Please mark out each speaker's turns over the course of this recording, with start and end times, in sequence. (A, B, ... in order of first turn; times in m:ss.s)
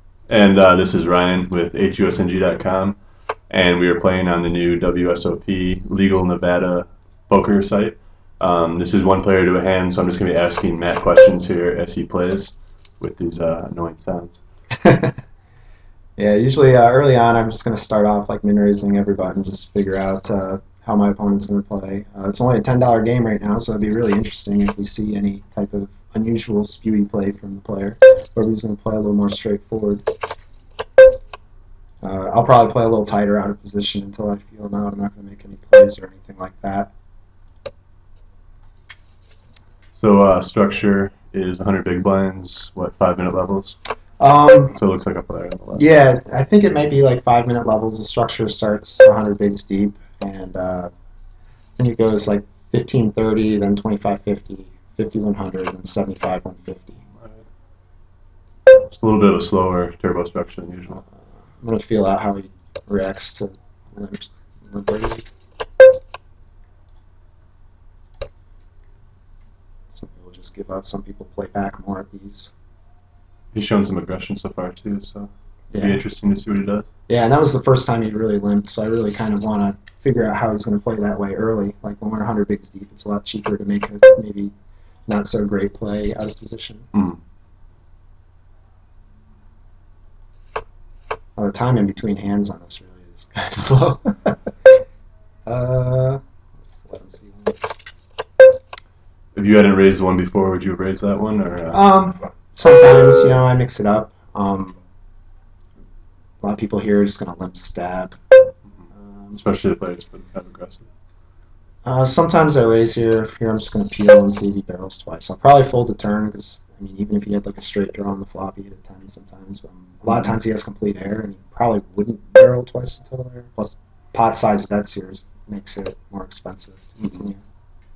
0:00.3-0:03.0 A
0:03.5-0:14.4 A
0:14.8-0:15.2 B
0:16.2-0:30.0 B
0:32.0-0:36.9 B
0:40.0-0:43.8 A
0:44.2-0:44.8 B
0:44.7-0:45.8 A
0:45.8-0:50.9 B
0:51.8-0:57.0 B
0:58.9-1:01.0 A
1:01.6-1:05.3 B
1:09.9-1:12.5 B
1:13.5-1:16.9 A
1:15.7-1:16.0 B
1:17.1-1:24.5 B
1:25.1-1:26.9 B
1:26.9-1:27.2 A
1:31.4-1:34.5 B
1:35.5-1:37.6 B
1:39.4-1:41.8 A
1:41.7-1:44.8 B
1:46.4-1:48.2 B
1:48.9-1:49.4 B
1:49.3-1:50.9 A
1:51.8-2:07.4 B
2:00.1-2:00.3 A